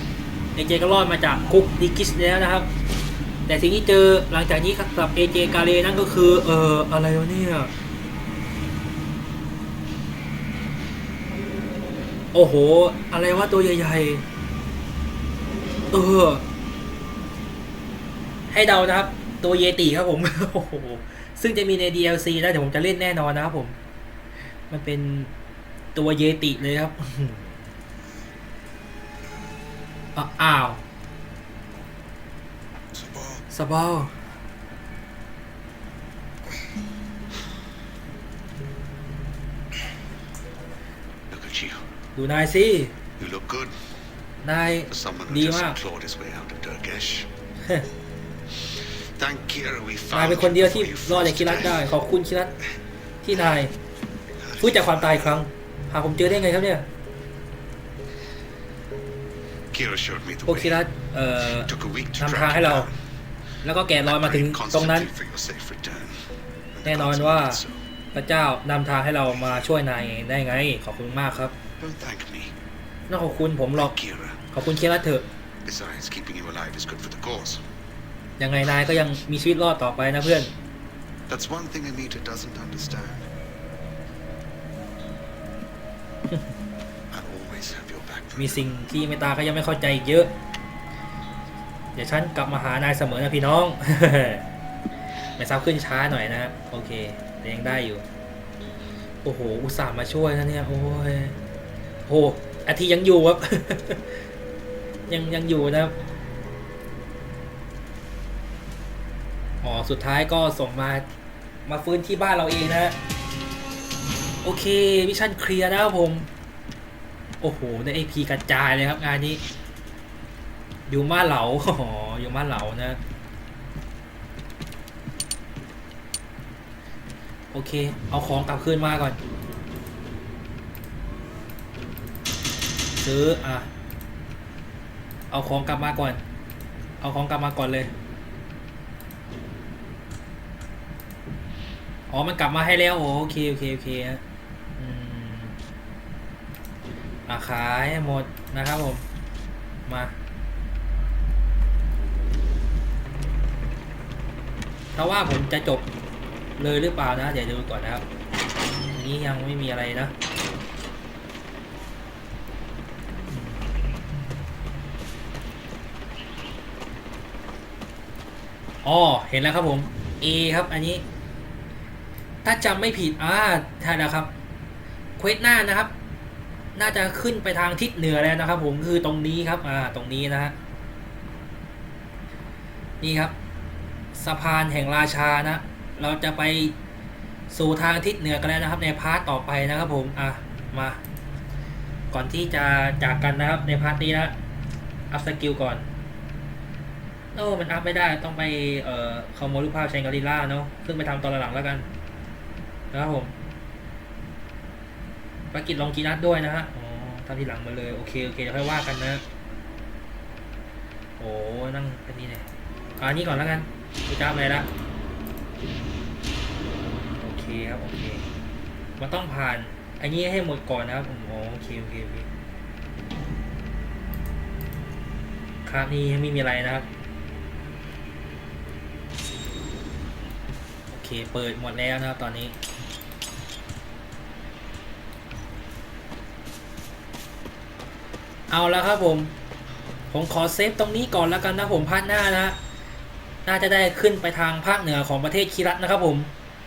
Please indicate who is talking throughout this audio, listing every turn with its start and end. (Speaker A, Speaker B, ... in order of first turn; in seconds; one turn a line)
Speaker A: 0.5-2.7
Speaker A: 3.5-7.7
Speaker A: 12.3-14.2
Speaker A: 15.9-16.4
Speaker A: 18.5-23.7
Speaker A: 24.7-25.3
Speaker A: 25.9-27.5
Speaker A: 30.1-30.8
Speaker B: 32.9-33.4
Speaker A: 33.5-34.1
Speaker B: 41.3-41.8
Speaker A: 42.1-42.9
Speaker B: 43.2-43.7
Speaker A: 44.4-45.8
Speaker B: 44.9-47.3
Speaker B: 49.1-51.9
Speaker A: 50.1-52.5
Speaker A: 53.2-53.7
Speaker B: 54.4-55.4
Speaker A: 54.6-56.9
Speaker B: 59.7-60.8
Speaker A: 60.4-62.9
Speaker B: 61.5-62.9
Speaker A: 63.6-65.1
Speaker B: 64.0-67.8
Speaker A: 66.8-67.6
Speaker A: 68.1-71.5
Speaker B: 71.8-72.5
Speaker A: 73.1-74.0
Speaker B: 73.8-74.4
Speaker A: 74.5-75.2
Speaker B: 75.6-77.6
Speaker A: 78.4-80.5
Speaker B: 81.3-83.3
Speaker B: 87.1-88.7
Speaker A: 88.3-90.3
Speaker A: 91.9-94.4
Speaker A: 95.4-98.0
Speaker A: 99.2-101.3
Speaker A: 102.0-104.2
Speaker A: 105.1-105.9
Speaker A: 109.6-111.0
Speaker A: 111.7-113.0
Speaker A: 114.4-116.3
Speaker A: 117.4-119.4
Speaker A: 120.9-123.0
Speaker A: 127.5-129.2
Speaker A: 133.0-133.7
Speaker A: 135.3-136.2
Speaker A: 137.0-137.9
Speaker A: 142.1-144.2
Speaker A: 144.8-145.5
Speaker A: 147.3-149.0
Speaker A: 149.8-150.1
Speaker A: 154.9-155.8
Speaker A: 156.6-158.0
Speaker A: 158.9-160.1
Speaker A: 163.3-163.7
Speaker A: 168.8-171.0
Speaker A: 172.4-174.3
Speaker A: 175.2-175.9
Speaker A: 176.7-180.5
Speaker A: 183.0-183.3
Speaker A: 184.1-186.7
Speaker A: 187.5-191.0
Speaker A: 192.1-194.3
Speaker A: 195.1-195.9
Speaker A: 197.3-201.8
Speaker A: 202.9-203.3
Speaker A: 205.5-209.2
Speaker A: 211.2-212.5
Speaker A: 213.0-214.7
Speaker A: 217.2-218.2
Speaker A: 219.0-222.3
Speaker A: 225.6-226.9
Speaker A: 230.9-232.5
Speaker A: 238.5-239.3
Speaker A: 240.1-242.6
Speaker A: 243.4-246.3